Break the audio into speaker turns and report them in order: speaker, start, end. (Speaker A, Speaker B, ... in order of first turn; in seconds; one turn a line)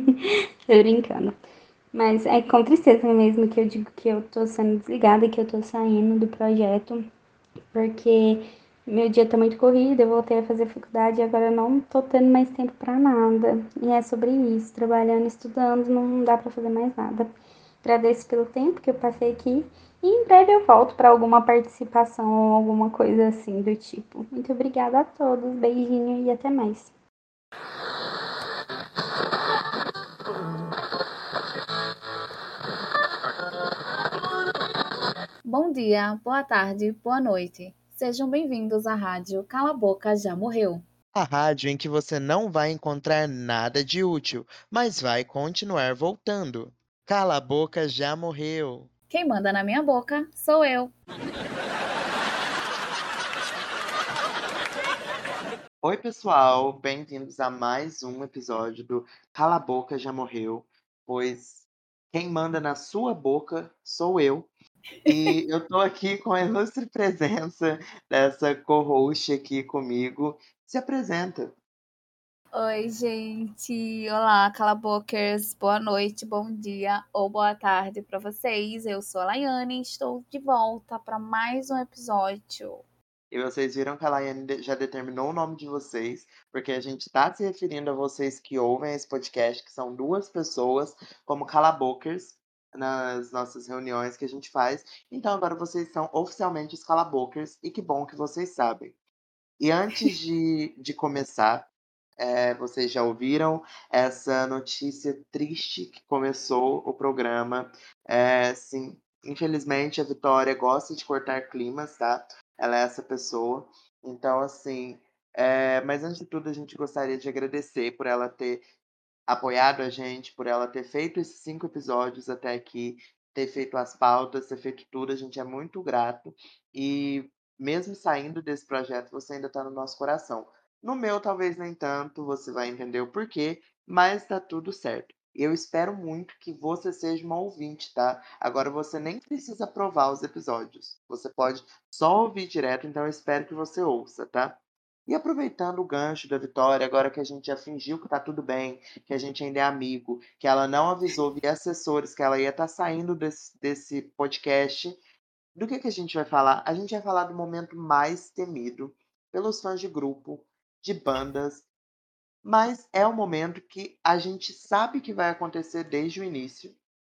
Speaker A: 0.7-1.4
Speaker A: 1.9-7.0
Speaker A: 7.7-17.3
Speaker A: 17.8-26.9
Speaker B: 35.4-40.8
Speaker C: 41.1-48.9
Speaker B: 49.1-50.9
Speaker C: 55.8-64.5
Speaker B: 65.0-65.3
Speaker C: 65.0-71.5
Speaker B: 72.5-82.8
Speaker C: 83.3-99.0
Speaker C: 99.6-118.6
Speaker C: 119.3-155.0
Speaker C: 155.6-161.6
Speaker C: 162.4-166.8